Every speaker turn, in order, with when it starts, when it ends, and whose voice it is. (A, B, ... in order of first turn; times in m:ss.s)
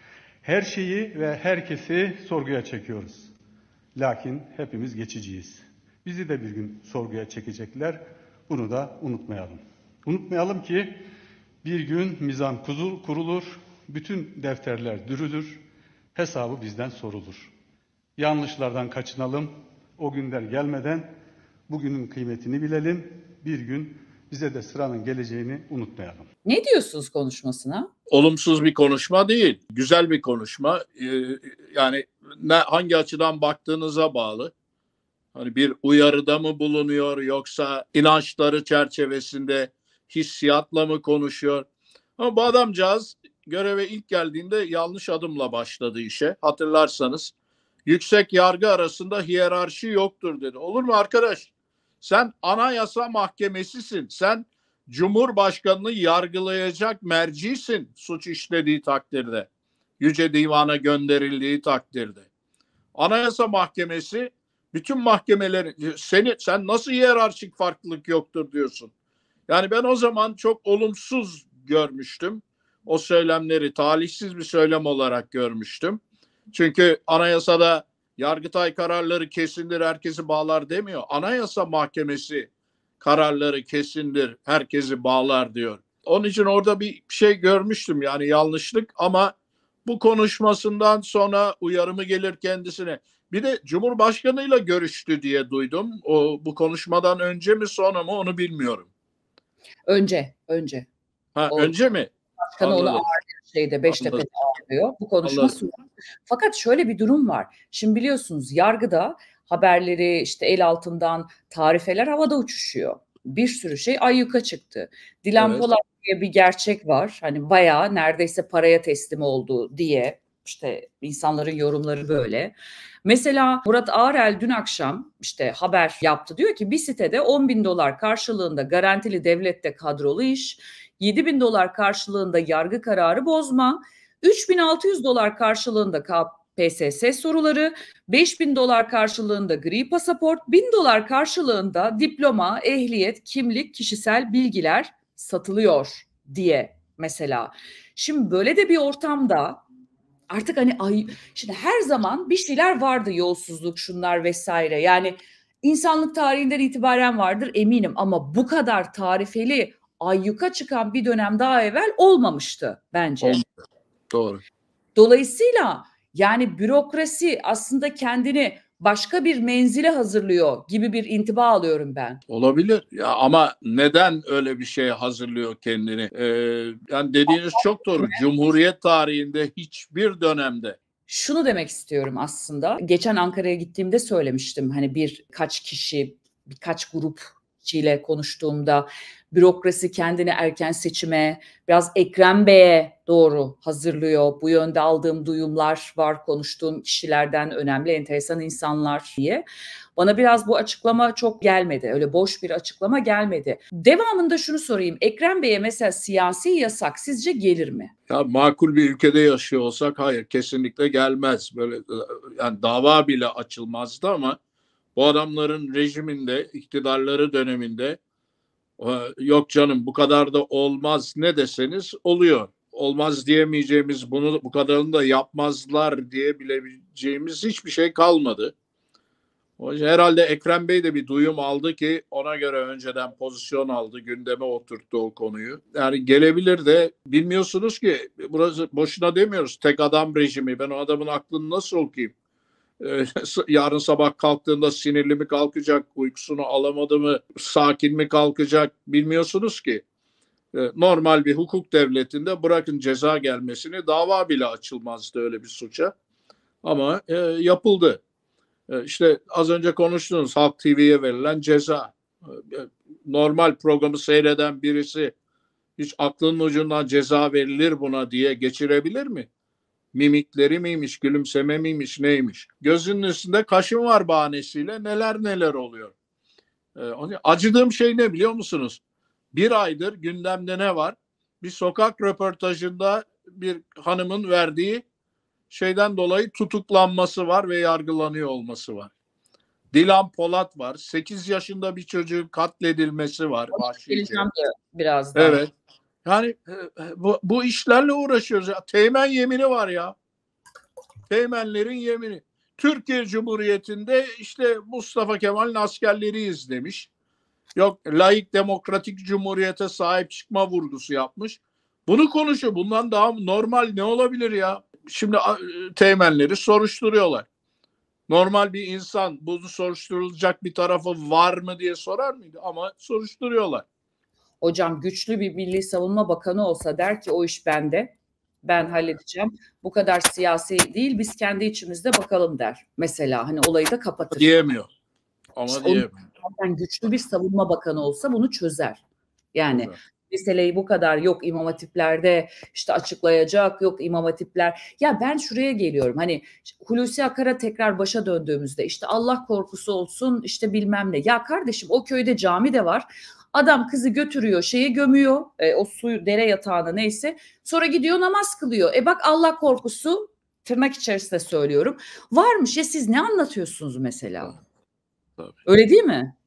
0:00.4-0:03.3 A
0:04.0-0:11.0 A
0:11.6-0:15.6 A
0:16.2-0:17.5 A
0:18.2-0:21.1 A
0:21.7-0:26.3 A
0:26.4-0:27.9 B
0:28.1-0:34.5 C
0:35.4-0:41.7 C
0:42.2-0:47.3 C
0:47.9-0:51.5 C
0:52.0-0:59.5 C
1:00.0-1:02.3 C
1:03.0-1:08.9 C
1:09.5-1:16.0 C
1:16.5-1:22.5 C
1:23.0-1:29.3 C
1:29.9-1:38.9 C
1:39.9-1:40.9 B
1:41.4-1:43.0 C
1:42.5-1:45.7 B
1:43.9-1:44.2 C
1:45.2-1:45.6 C
1:46.3-2:29.6 B
1:55.4-1:55.7 C
2:30.3-2:43.4 B
2:43.2-2:43.5 C
2:44.1-2:44.4 C
2:45.0-2:52.2 B
2:52.3-3:00.8 C
3:01.1-3:19.4 B
3:20.0-3:27.9 B
3:28.1-3:34.4 C
3:35.0-3:38.0 C
3:38.8-3:48.5 C
3:49.6-4:02.1 C
4:02.8-4:09.8 C
4:10.5-4:15.9 C
4:16.6-4:18.0 C
4:18.7-4:25.1 C
4:25.8-4:29.3 C
4:29.9-4:36.0 C
4:36.8-4:38.8 C
4:39.3-4:44.8 C
4:45.5-4:48.9 C
4:49.7-4:54.3 C
4:53.5-4:55.4 B
4:55.2-4:55.5 C
4:56.0-5:00.0 C
5:01.1-5:06.9 C
5:07.6-5:17.2 C
5:18.1-5:23.6 C
5:24.4-5:34.5 B
5:34.1-5:34.7 C
5:35.4-5:36.0 C
5:35.5-5:38.8 B
5:39.3-6:04.4 B
6:05.4-6:06.1 B